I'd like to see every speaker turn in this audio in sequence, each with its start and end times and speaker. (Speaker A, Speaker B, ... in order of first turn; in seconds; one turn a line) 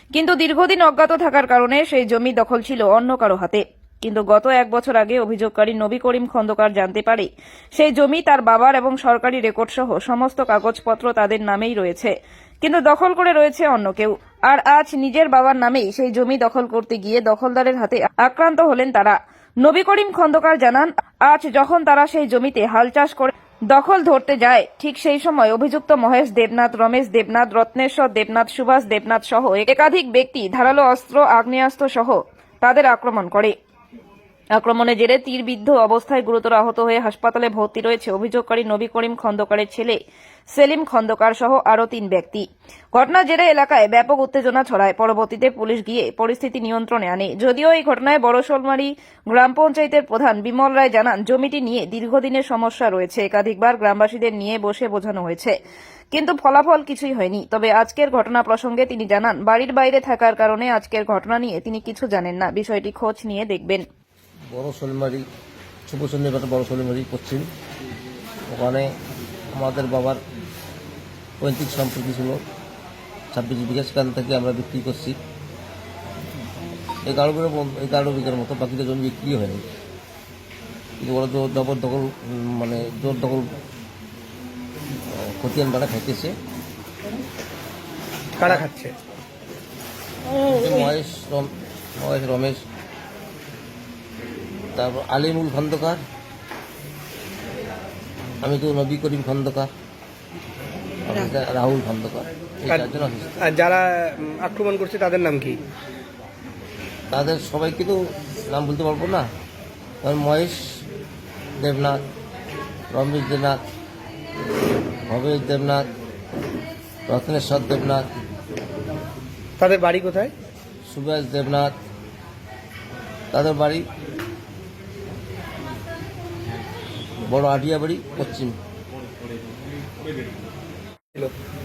Speaker A: 0.1-12.1
Speaker A: 12.6-33.5
Speaker A: 34.6-40.0
Speaker A: 40.5-42.4
Speaker A: 42.9-55.5
Speaker A: 56.1-63.8
Speaker B: 64.5-65.2
Speaker B: 65.9-67.5
Speaker B: 68.5-68.9
Speaker B: 69.5-70.2
Speaker B: 71.4-72.4
Speaker B: 73.3-75.2
Speaker B: 77.0-79.7
Speaker B: 81.0-83.5
Speaker B: 85.1-86.3
Speaker C: 88.4-88.9
Speaker B: 90.3-92.6
Speaker B: 94.8-96.0
Speaker B: 98.4-99.7
Speaker B: 101.0-103.3
Speaker C: 103.4-105.6
Speaker B: 107.1-109.2
Speaker B: 110.0-110.6
Speaker B: 111.6-112.0
Speaker B: 112.9-113.6
Speaker B: 115.1-115.8
Speaker B: 117.1-118.0
Speaker C: 119.6-120.3
Speaker B: 120.8-121.7
Speaker B: 123.3-123.8
Speaker B: 127.3-128.5